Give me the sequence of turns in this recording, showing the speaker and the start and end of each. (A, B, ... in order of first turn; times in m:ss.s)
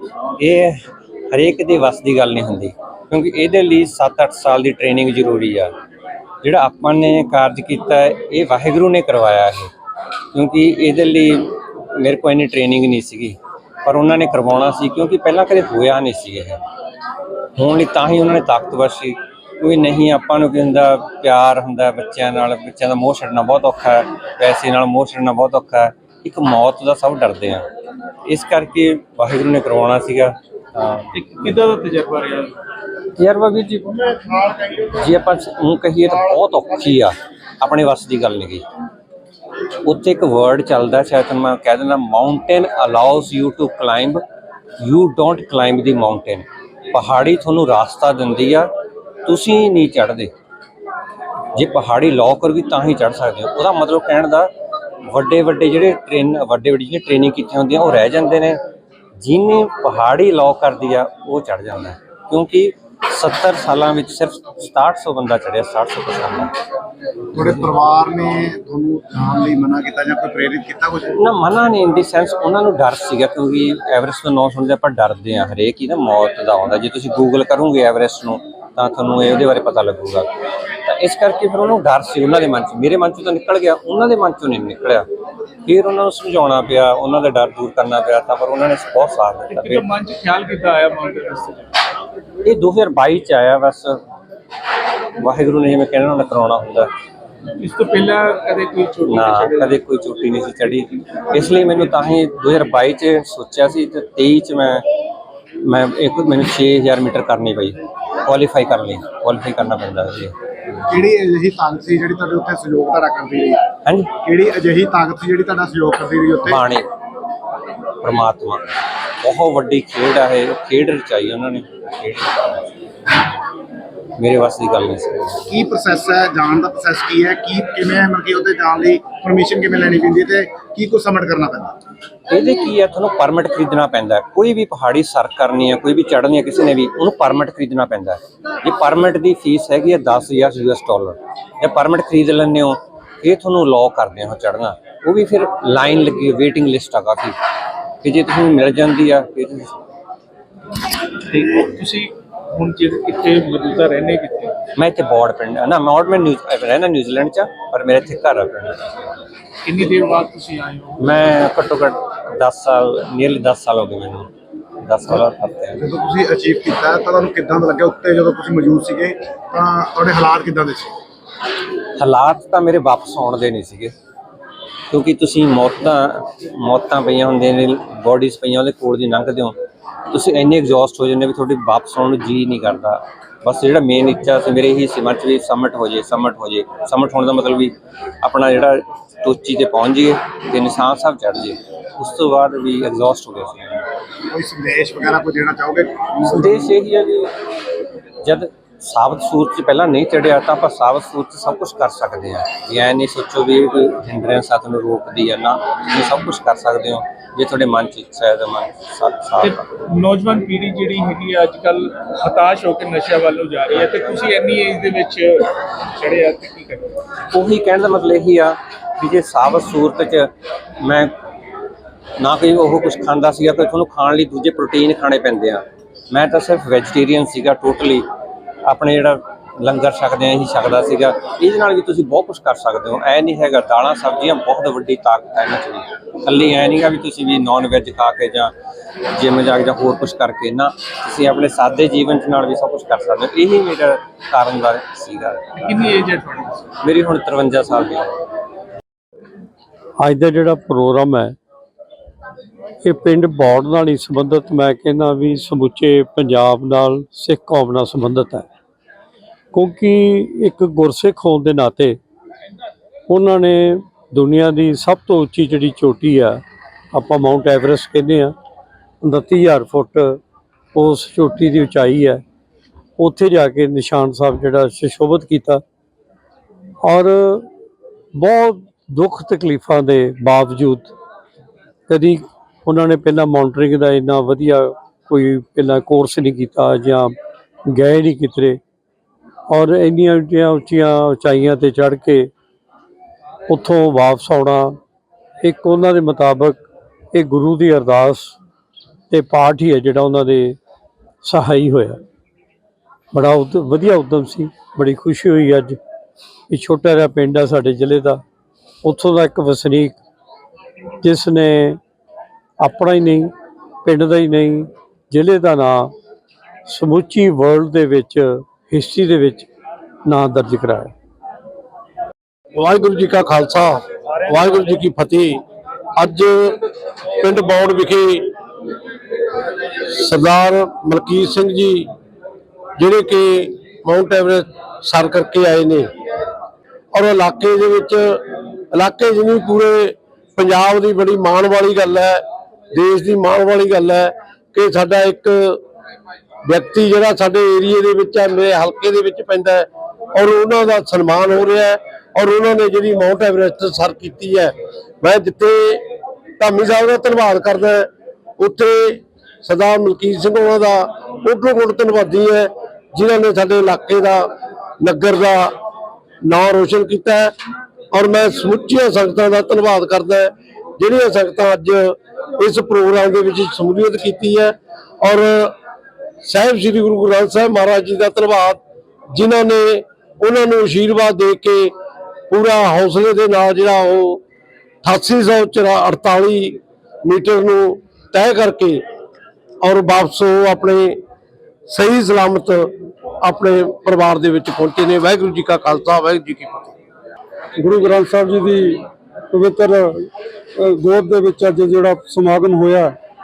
0:00.4-0:00.8 A
0:01.3-0:05.7 A
0:06.4-0:09.7 A
0:10.3-0:16.6 A
0:17.6-0:27.6 A
0:28.3-0:31.1 A
0:31.1-0:32.6 B
0:33.2-0:38.6 A
0:39.8-0:44.2 A
0:44.8-0:48.7 A
0:49.2-0:50.3 A
0:51.5-0:54.5 A
0:55.1-0:58.6 A
0:59.2-1:06.5 A
1:07.3-1:11.2 C
1:11.2-1:20.3 A
1:20.8-1:25.0 A
1:25.6-1:29.8 A
1:29.5-1:31.8 B
1:32.4-1:34.0 A
1:35.2-1:36.9 A
1:37.6-1:39.8 B
1:39.0-1:44.8 A
1:45.6-1:50.3 A
1:50.8-1:53.6 C
1:53.8-1:54.1 A
1:54.2-1:56.7 C
1:56.4-1:56.9 A
1:58.0-1:58.6 A
1:59.2-2:02.7 A
2:04.2-2:05.4 A
2:05.5-2:11.8 C
2:12.3-2:27.4 A
2:28.0-2:29.7 A
2:31.3-2:34.6 B
2:34.8-2:38.9 A
2:39.6-2:41.2 B
2:41.0-2:44.3 A
2:44.8-2:45.8 A
2:45.8-2:50.9 C
2:52.0-2:53.9 A
2:54.9-2:59.6 A
3:00.1-3:13.8 A
3:14.3-3:16.7 C
3:16.3-3:17.3 A
3:18.2-3:29.6 A
3:29.4-3:37.0 B
3:33.7-3:34.0 A
3:37.3-3:40.3 A
3:40.8-3:41.1 A
3:42.2-3:48.0 A
3:48.7-3:58.5 A
3:59.1-4:05.5 A
4:05.6-4:06.7 B
4:06.8-4:08.2 A
4:10.0-4:11.3 D
4:12.8-4:18.5 D
4:19.5-4:22.0 D
4:23.1-4:26.4 D
4:26.9-4:28.3 D
4:29.0-4:30.2 D
4:30.7-4:32.2 D
4:33.0-4:35.6 D
4:36.8-4:37.5 D
4:38.1-4:40.9 D
4:41.9-4:47.1 D
4:47.7-4:48.6 D
4:49.5-4:52.3 D
4:53.5-4:54.8 D
4:55.4-4:56.6 D
4:57.1-4:58.4 D
4:59.1-5:00.6 D
5:01.2-5:02.0 D
5:03.1-5:05.8 D
5:06.5-5:08.2 D
5:08.8-5:10.0 D
5:11.0-5:11.8 D
5:12.6-5:13.3 D
5:13.8-5:15.9 D
5:16.6-5:19.5 D
5:20.0-5:20.9 D
5:22.6-5:25.4 E
5:26.0-5:26.6 E
5:27.2-5:28.3 E
5:29.8-5:31.9 E
5:32.8-5:35.9 E
5:36.9-5:45.6 E
5:46.4-5:55.8 E
5:56.4-6:04.3 E
6:04.8-6:05.5 E
6:06.2-6:07.3 E
6:07.9-6:15.5 E
6:16.2-6:18.6 E
6:19.1-6:21.7 E
6:22.3-6:24.2 E
6:24.8-6:28.8 E
6:29.6-6:31.0 E
6:31.7-6:36.7 E
6:37.6-6:40.1 F
6:40.6-6:42.9 F